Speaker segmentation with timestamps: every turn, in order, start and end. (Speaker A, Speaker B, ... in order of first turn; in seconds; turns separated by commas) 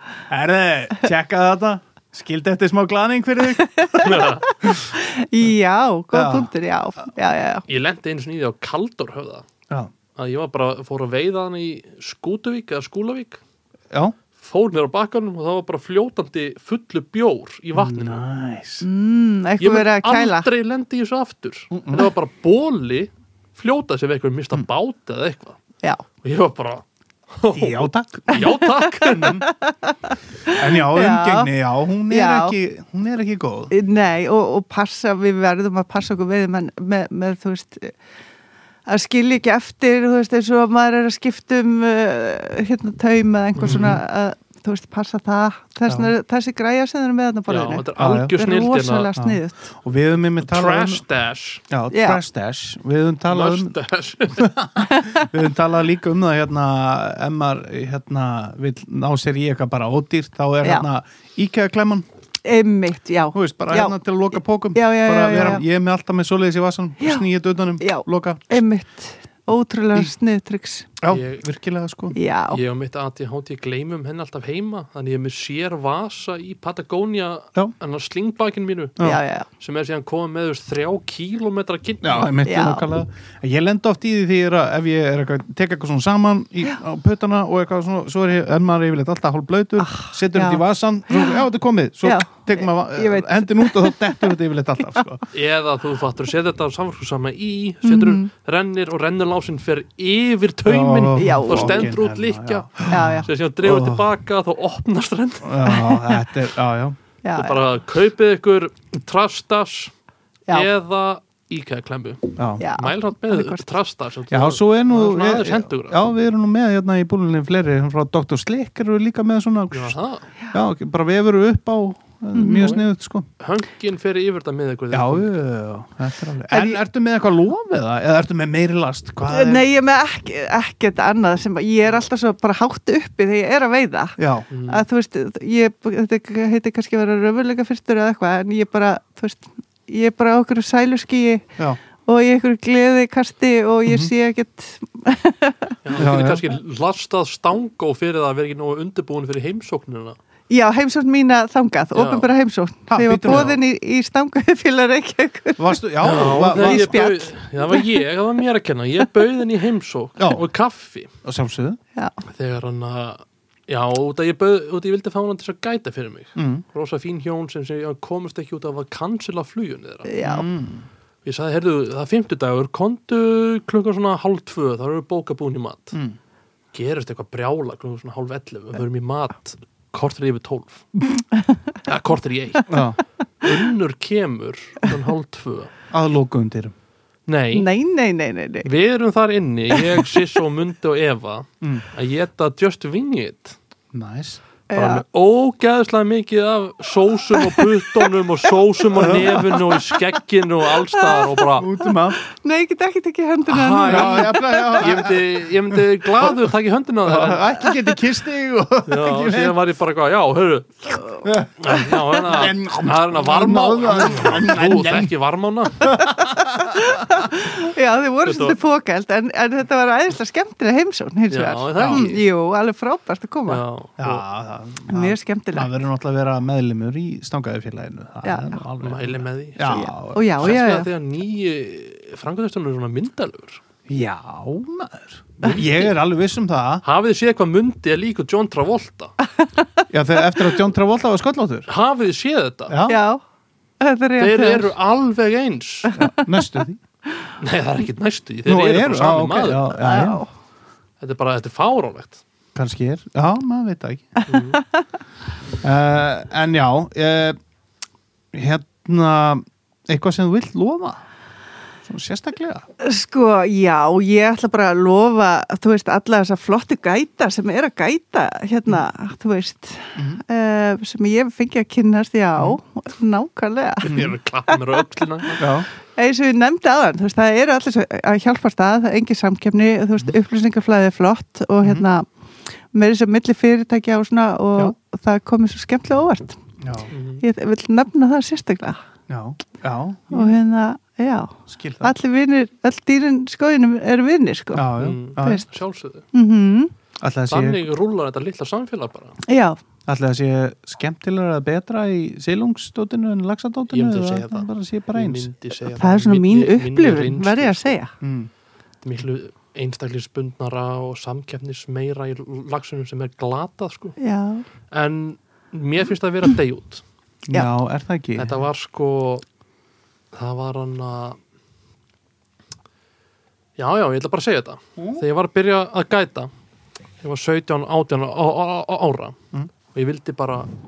Speaker A: 0.3-4.2, Speaker B: 3.8-7.6, Speaker C: 4.0-4.4, Speaker A: 6.1-6.5, Speaker C: 7.7-9.5, Speaker C: 10.2-13.4, Speaker A: 13.9-14.2, Speaker C: 14.4-18.2, Speaker A: 17.8-18.9, Speaker B: 18.8-20.5, Speaker C: 19.6-25.6, Speaker A: 21.7-22.1, Speaker C: 26.2-29.4, Speaker A: 27.5-28.3, Speaker B: 28.3-31.5, Speaker A: 29.1-29.4, Speaker A: 30.5-33.7, Speaker B: 32.1-32.5, Speaker B: 33.7-37.9, Speaker B: 38.9-49.7, Speaker C: 43.6-44.0, Speaker A: 43.6-44.0, Speaker A: 45.9-46.1, Speaker C: 47.5-49.1, Speaker A: 48.0-48.4, Speaker A: 49.2-51.0, Speaker C: 50.4-51.6, Speaker A: 51.7-53.7, Speaker B: 51.9-52.2, Speaker C: 53.3-54.5, Speaker A: 54.3-62.0, Speaker B: 54.9-55.2, Speaker B: 62.4-64.0, Speaker A: 63.3-68.6, Speaker B: 64.7-65.6, Speaker B: 67.8-70.9, Speaker A: 71.0-72.2, Speaker C: 71.1-71.4, Speaker B: 72.1-72.6, Speaker C: 72.5-82.3, Speaker B: 79.0-79.5, Speaker A: 82.0-95.2, Speaker B: 82.5-82.8, Speaker B: 89.8-90.6, Speaker B: 91.1-91.4, Speaker B: 92.0-94.0, Speaker C: 95.3-105.6, Speaker B: 97.8-98.3, Speaker A: 100.7-104.0, Speaker B: 101.2-101.9, Speaker B: 102.9-103.3, Speaker A: 105.4-107.0, Speaker B: 105.7-106.0, Speaker B: 107.2-107.6, Speaker C: 107.3-109.9, Speaker C: 110.5-116.0, Speaker A: 112.4-112.7, Speaker B: 112.6-113.7, Speaker A: 114.3-120.0, Speaker C: 119.7-120.3, Speaker A: 120.5-123.3, Speaker B: 122.3-122.8, Speaker C: 122.5-122.8, Speaker C: 123.4-125.3, Speaker A: 124.9-129.7, Speaker B: 126.5-126.8, Speaker B: 129.3-141.5, Speaker A: 134.2-134.5, Speaker C: 134.5-134.8, Speaker B: 142.0-146.0, Speaker A: 143.9-144.1, Speaker C: 145.8-150.2, Speaker A: 146.0-146.4, Speaker B: 150.5-157.8, Speaker C: 151.9-152.3, Speaker A: 152.9-153.5, Speaker C: 153.2-153.6, Speaker A: 155.6-157.0, Speaker C: 156.0-161.1, Speaker A: 161.2-161.8, Speaker C: 162.3-170.1, Speaker A: 166.4-166.6, Speaker B: 170.1-170.5, Speaker A: 170.2-170.8, Speaker C: 171.2-176.0, Speaker C: 176.7-180.9, Speaker C: 181.9-182.8, Speaker A: 182.7-183.0, Speaker C: 183.4-185.7, Speaker A: 185.9-186.7, Speaker C: 187.3-187.7, Speaker B: 187.5-188.7, Speaker C: 188.6-193.6, Speaker A: 193.9-194.4, Speaker B: 194.7-195.0, Speaker C: 194.7-201.7, Speaker A: 199.0-199.4, Speaker B: 201.0-201.3, Speaker A: 201.6-202.2, Speaker B: 202.4-204.9, Speaker C: 203.5-207.5, Speaker A: 203.8-206.5, Speaker A: 207.0-209.6, Speaker C: 208.9-211.0, Speaker A: 211.2-215.1, Speaker C: 211.6-215.9, Speaker A: 215.8-216.9, Speaker B: 215.9-223.6, Speaker C: 218.2-218.6, Speaker C: 221.3-222.3, Speaker A: 221.8-222.1, Speaker C: 223.5-224.2, Speaker A: 224.0-230.6, Speaker B: 224.9-225.7, Speaker B: 228.2-228.6, Speaker C: 228.8-233.6, Speaker B: 229.7-230.9, Speaker A: 233.9-236.8, Speaker C: 236.8-239.1, Speaker A: 239.9-241.7, Speaker C: 241.7-242.8, Speaker A: 242.7-243.0, Speaker B: 242.9-243.2, Speaker B: 243.8-244.7, Speaker C: 244.2-245.9, Speaker A: 246.0-246.8, Speaker C: 247.4-249.8, Speaker A: 248.4-250.2, Speaker B: 249.8-250.3, Speaker C: 251.0-252.2, Speaker A: 252.6-254.2, Speaker B: 254.3-254.8, Speaker C: 254.3-254.6, Speaker A: 255.6-257.4, Speaker A: 258.3-261.0, Speaker A: 261.9-262.7, Speaker B: 262.8-274.6, Speaker A: 270.0-270.2, Speaker C: 273.8-275.4, Speaker A: 275.4-275.7, Speaker B: 275.9-282.1, Speaker B: 282.7-286.4, Speaker A: 286.6-286.9, Speaker C: 286.9-287.2, Speaker B: 287.2-288.8, Speaker A: 289.1-290.3, Speaker B: 290.1-295.5, Speaker A: 291.5-291.9, Speaker A: 294.5-295.4, Speaker C: 294.8-296.1, Speaker B: 296.1-296.7, Speaker A: 297.0-297.6, Speaker C: 297.3-299.2, Speaker B: 299.3-299.6, Speaker A: 299.9-305.3, Speaker C: 303.7-307.8, Speaker B: 305.8-307.9, Speaker A: 308.0-308.3, Speaker C: 308.8-314.0, Speaker B: 314.0-314.4, Speaker C: 314.7-316.8, Speaker A: 317.3-318.4, Speaker C: 318.2-319.2, Speaker C: 320.1-321.2, Speaker C: 323.6-326.3, Speaker A: 324.8-325.0, Speaker C: 327.0-329.2, Speaker C: 329.7-330.5